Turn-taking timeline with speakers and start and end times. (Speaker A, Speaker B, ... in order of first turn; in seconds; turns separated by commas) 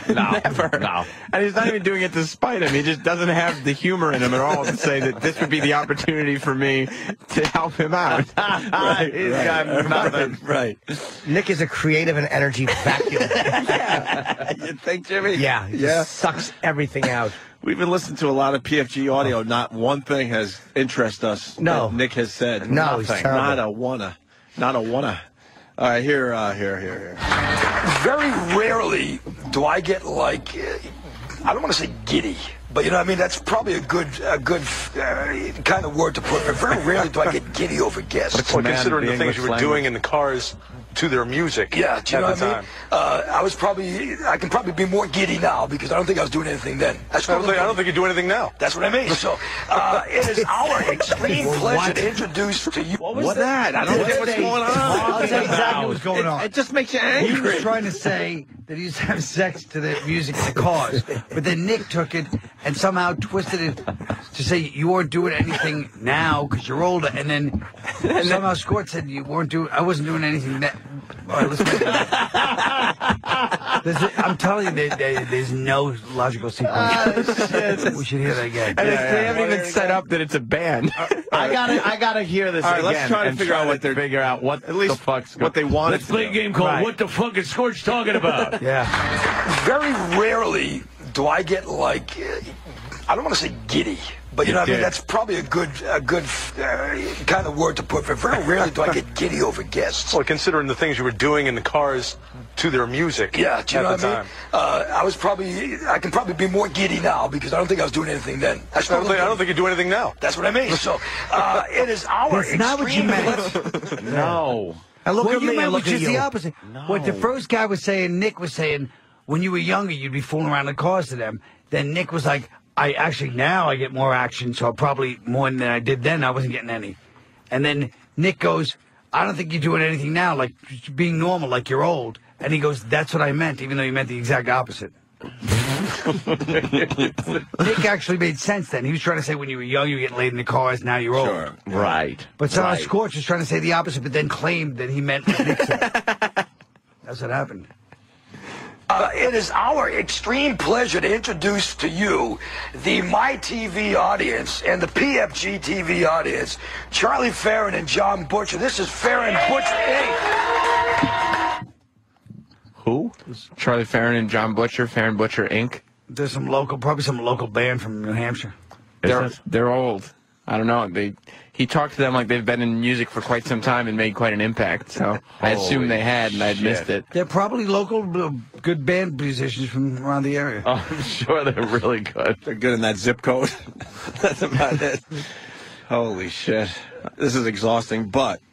Speaker A: 0.1-1.1, Speaker B: 0.1-8.4, Speaker A: 8.4-10.4, Speaker C: 8.7-11.2, Speaker D: 11.2-13.8, Speaker C: 13.4-16.5, Speaker D: 15.3-17.4, Speaker C: 17.6-25.2, Speaker D: 21.6-22.0, Speaker A: 22.6-23.2, Speaker D: 22.6-23.6, Speaker C: 25.8-27.2, Speaker E: 27.8-30.9, Speaker E: 31.4-38.5, Speaker A: 38.3-39.9, Speaker F: 38.4-42.7, Speaker E: 41.7-47.8, Speaker F: 47.2-48.5, Speaker E: 48.6-53.2, Speaker D: 50.2-51.5, Speaker G: 51.2-52.2, Speaker C: 53.0-58.0, Speaker A: 53.2-53.4, Speaker G: 53.2-56.5, Speaker D: 53.9-55.2, Speaker A: 54.7-56.2, Speaker G: 57.1-72.2, Speaker G: 73.8-79.0, Speaker A: 76.7-77.8, Speaker C: 76.8-80.0, Speaker B: 78.7-81.3, Speaker A: 78.8-79.4, Speaker C: 81.0-81.8, Speaker A: 81.3-88.7, Speaker C: 82.6-86.5, Speaker G: 86.6-86.9, Speaker G: 88.6-89.0, Speaker E: 89.4-92.5, Speaker E: 93.1-100.2, Speaker A: 94.4-94.9, Speaker F: 100.1-104.3, Speaker E: 103.3-109.4, Speaker F: 108.8-110.2, Speaker E: 110.2-113.6, Speaker G: 112.3-114.4, Speaker A: 114.0-114.8, Speaker D: 115.0-116.3, Speaker G: 115.2-127.0, Speaker A: 116.6-117.3, Speaker G: 127.5-134.9, Speaker A: 136.5-137.3, Speaker G: 137.6-141.5, Speaker C: 141.1-141.8, Speaker A: 141.7-142.9, Speaker G: 142.4-146.0, Speaker G: 147.1-147.7, Speaker E: 148.9-160.2, Speaker A: 162.8-163.1, Speaker B: 163.6-165.8, Speaker G: 166.1-168.5, Speaker A: 169.0-169.3, Speaker B: 169.0-177.1, Speaker A: 175.4-176.9, Speaker G: 177.1-180.7, Speaker A: 180.6-182.4, Speaker C: 182.4-185.2, Speaker C: 185.9-188.4